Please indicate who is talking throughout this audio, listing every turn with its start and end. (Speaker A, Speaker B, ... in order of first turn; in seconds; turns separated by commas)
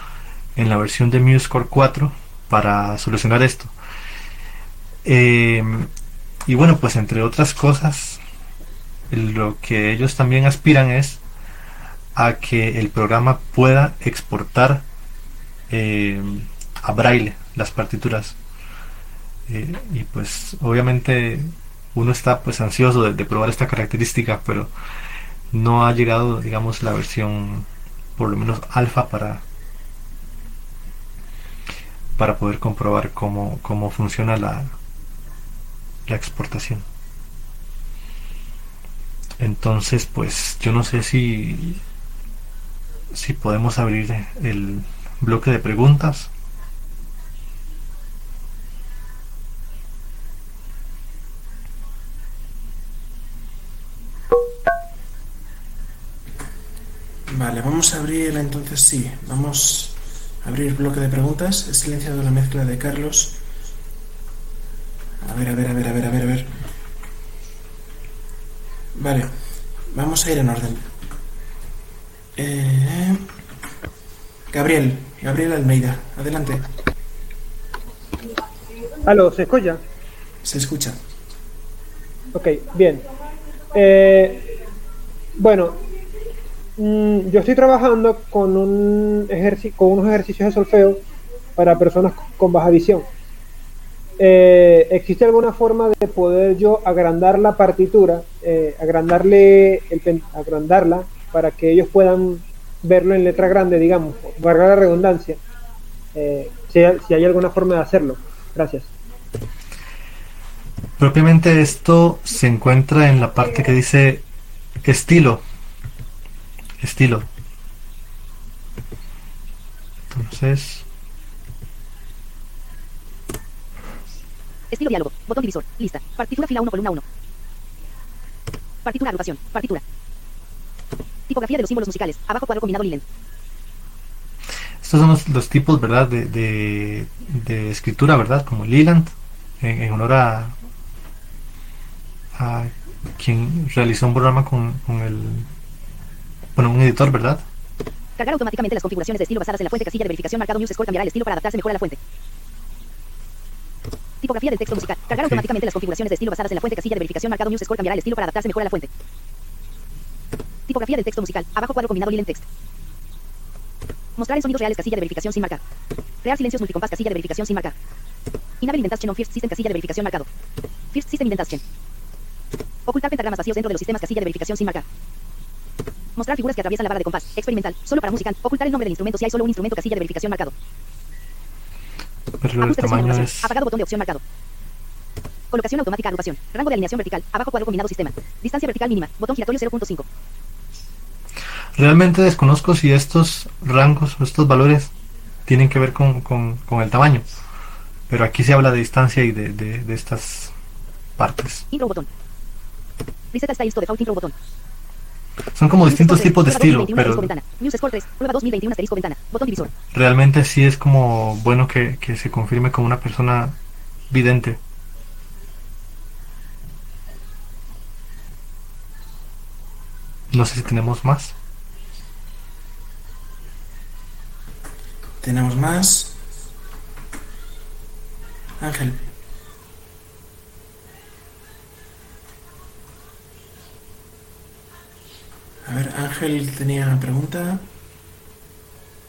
Speaker A: 0.6-3.7, Speaker A: 5.0-5.9, Speaker A: 6.5-8.2, Speaker A: 9.1-11.2, Speaker A: 12.1-14.8, Speaker A: 15.7-18.4, Speaker A: 19.5-24.7, Speaker A: 25.5-29.4, Speaker A: 32.1-34.7, Speaker A: 36.0-36.8, Speaker A: 39.4-41.8, Speaker A: 43.1-46.3, Speaker B: 57.3-63.4, Speaker B: 65.2-66.5, Speaker B: 68.9-69.3, Speaker B: 69.9-70.9, Speaker B: 72.3-73.3, Speaker B: 74.5-76.7, Speaker C: 79.0-79.8, Speaker B: 80.4-81.0, Speaker C: 82.3-83.0, Speaker C: 83.7-84.4, Speaker C: 85.4-85.8, Speaker C: 86.8-91.0, Speaker C: 91.6-93.1, Speaker C: 94.2-105.4, Speaker C: 106.1-108.9, Speaker A: 111.0-114.2, Speaker A: 114.8-115.4, Speaker A: 116.8-117.3, Speaker A: 120.1-120.8, Speaker D: 124.7-127.0, Speaker D: 128.8-129.8, Speaker D: 131.3-133.0, Speaker A: 134.8-140.6, Speaker A: 142.3-145.5, Speaker A: 146.6-147.4, Speaker D: 148.2-152.0, Speaker D: 154.2-158.9, Speaker A: 155.1-155.4, Speaker D: 160.7-162.4, Speaker D: 164.2-165.6, Speaker D: 166.2-167.7, Speaker D: 168.6-170.3, Speaker D: 170.9-171.6, Speaker D: 172.9-174.8, Speaker D: 176.2-180.5, Speaker A: 182.4-183.5, Speaker D: 182.6-184.2, Speaker D: 185.5-190.1, Speaker A: 191.8-194.9, Speaker A: 195.4-197.2, Speaker A: 198.1-200.5, Speaker A: 201.2-201.7, Speaker D: 201.7-202.1, Speaker D: 203.3-204.3, Speaker A: 205.5-207.3, Speaker D: 205.8-209.7, Speaker A: 209.9-213.6, Speaker A: 214.1-214.6, Speaker A: 220.3-221.3, Speaker B: 225.2-226.2, Speaker B: 228.6-229.1, Speaker B: 235.6-237.7